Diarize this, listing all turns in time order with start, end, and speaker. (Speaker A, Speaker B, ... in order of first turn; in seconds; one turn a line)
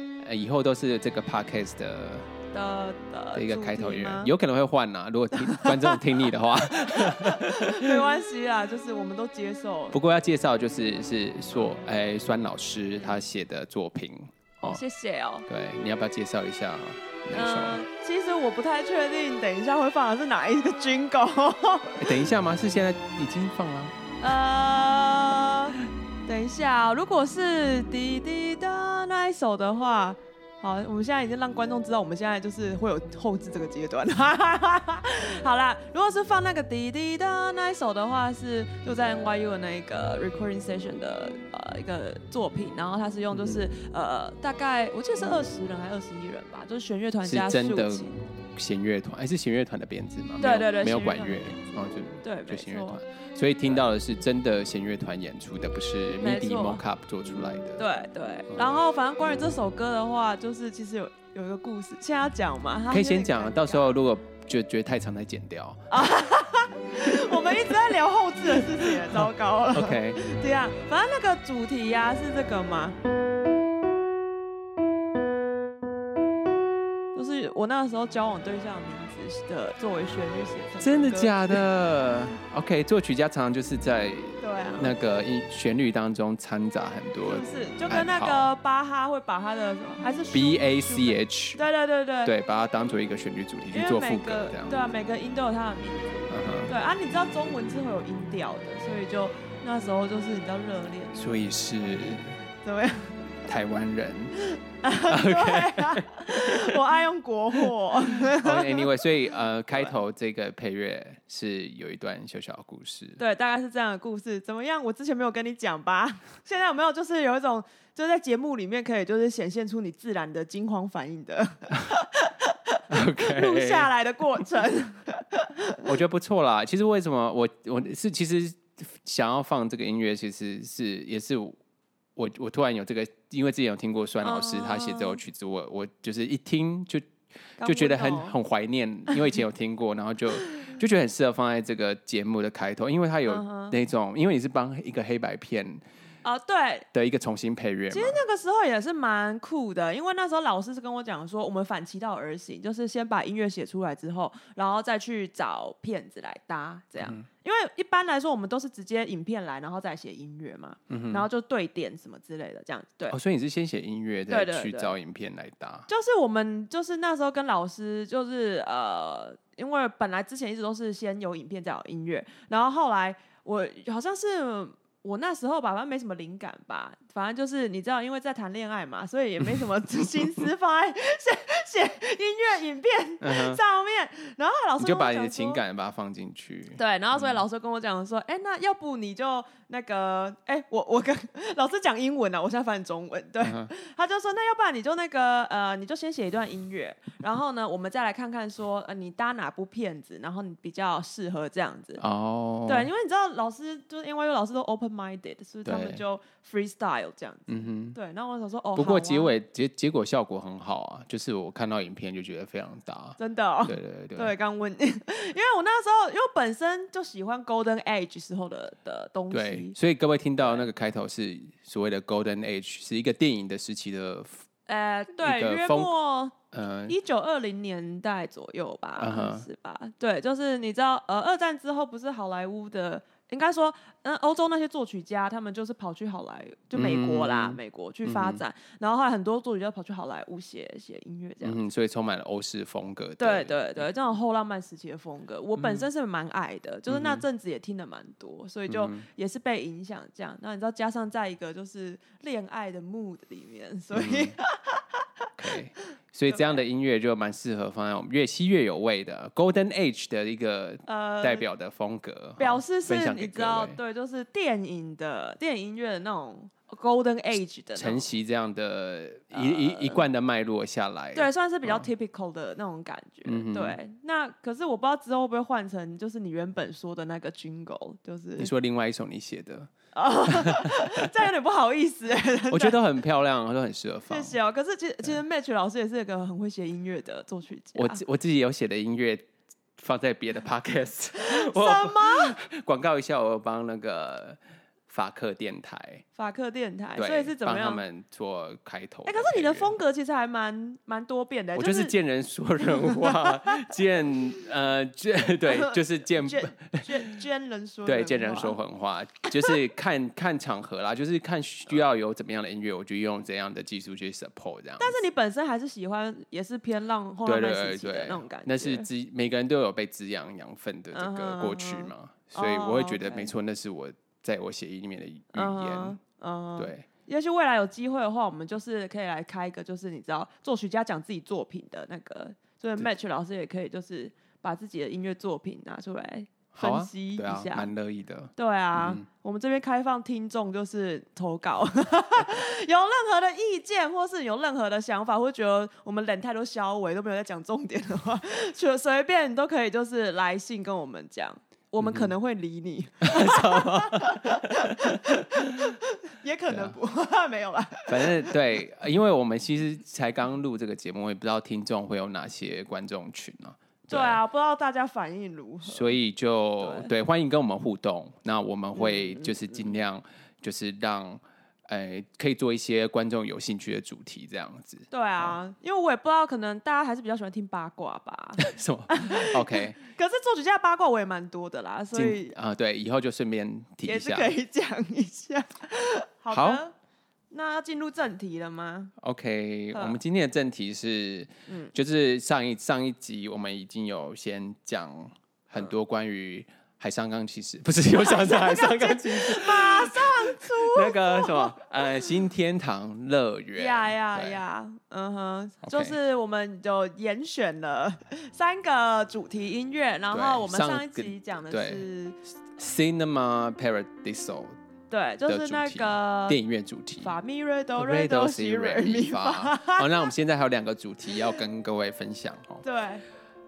Speaker A: 0.2-2.3
Speaker B: 2.5-4.3
Speaker A: 3.3-8.1
Speaker B: 5.4-6.0
Speaker B: 6.8-10.0
Speaker A: 9.9-14.8
Speaker B: 14.6-15.5
Speaker A: 15.5-17.8
Speaker B: 17.3-22.2
Speaker A: 22.0-23.9
Speaker B: 24.2-48.2
Speaker A: 43.3-43.6
Speaker A: 47.2-57.8
Speaker B: 50.4-51.6
Speaker B: 52.2-53.0
Speaker B: 56.2-56.8
Speaker B: 57.8-63.9
Speaker A: 58.5-58.8
Speaker A: 62.9-66.0
Speaker B: 65.9-73.0
Speaker A: 67.0-67.8
Speaker A: 68.6-70.2
Speaker B: 77.1-81.6
Speaker A: 80.8-88.5
Speaker B: 84.4-84.9
Speaker B: 87.2-92.3
Speaker A: 90.3-91.6
Speaker A: 92.2-94.8
Speaker B: 93.7-101.2
Speaker A: 96.3-96.7
Speaker A: 101.1-102.4
Speaker B: 102.6-103.1
Speaker A: 103.5-104.3
Speaker B: 104.4-109.0
Speaker A: 105.1-107.0
Speaker A: 107.5-113.2
Speaker B: 113.2-125.9
Speaker A: 122.9-123.9
Speaker A: 125.8-131.6
Speaker A: 132.2-137.1
Speaker B: 134.2-135.2
Speaker B: 137.6-138.3
Speaker A: 137.6-145.8
Speaker B: 143.3-143.8
Speaker B: 146.2-146.9
Speaker A: 146.9-148.2
Speaker B: 147.9-163.2
Speaker A: 157.0-157.2
Speaker A: 160.9-161.3
Speaker A: 163.1-165.9
Speaker B: 164.3-164.9
Speaker B: 165.9-185.6
Speaker A: 183.2-183.6
Speaker A: 184.8-187.4
Speaker B: 186.7-202.0
Speaker A: 193.4-193.7
Speaker A: 202.0-202.9
Speaker B: 202.7-209.3
Speaker A: 205.7-206.0
Speaker A: 207.5-208.0
Speaker A: 208.8-214.3
Speaker B: 213.2-219.8
Speaker A: 219.3-224.4
Speaker B: 220.4-220.7
Speaker B: 224.7-241.6
Speaker A: 225.2-225.9
Speaker A: 226.5-226.9
Speaker A: 229.0-229.5
Speaker A: 236.7-238.4
Speaker A: 241.4-243.9
Speaker B: 243.2-255.3
Speaker A: 245.6-245.9
Speaker A: 246.9-247.2
Speaker A: 248.7-249.1
Speaker A: 253.9-254.3
Speaker A: 255.4-263.8
Speaker B: 256.3-256.6
Speaker B: 260.9-261.4
Speaker B: 262.4-268.1
Speaker A: 267.8-271.9
Speaker B: 269.3-270.0
Speaker B: 271.1-278.5
Speaker A: 273.2-273.8
Speaker A: 278.4-279.7
Speaker B: 279.9-282.8
Speaker A: 280.3-281.1
Speaker A: 282.5-284.4
Speaker B: 284.1-288.0
Speaker A: 287.7-296.0
Speaker B: 291.1-292.4
Speaker B: 296.1-297.8
Speaker A: 296.9-299.7
Speaker B: 299.0-301.9
Speaker A: 301.5-307.0
Speaker B: 302.7-303.6
Speaker B: 305.4-308.6
Speaker A: 307.9-315.0
Speaker B: 309.3-309.6
Speaker B: 314.8-318.9
Speaker A: 317.2-326.0
Speaker B: 320.9-323.3
Speaker B: 325.3-337.7
Speaker A: 326.6-326.9
Speaker A: 336.5-339.0
Speaker B: 338.4-358.3
Speaker A: 351.8-352.1
Speaker A: 353.0-355.8
Speaker A: 356.5-356.8
Speaker A: 357.9-364.2
Speaker B: 363.9-366.0
Speaker A: 365.6-375.4
Speaker B: 366.6-366.9
Speaker B: 368.7-369.7
Speaker B: 374.9-382.3
Speaker A: 378.4-379.8
Speaker A: 381.9-384.4
Speaker B: 383.8-386.7
Speaker A: 386.3-386.6
Speaker B: 387.3-388.9
Speaker A: 389.0-404.4
Speaker B: 389.7-390.0
Speaker B: 397.9-401.7
Speaker B: 403.5-412.2
Speaker A: 405.6-405.9
Speaker A: 410.1-411.9
Speaker A: 412.5-414.5
Speaker B: 414.9-416.4
Speaker A: 415.3-417.1
Speaker B: 417.0-420.1
Speaker A: 417.8-422.6
Speaker B: 422.6-423.0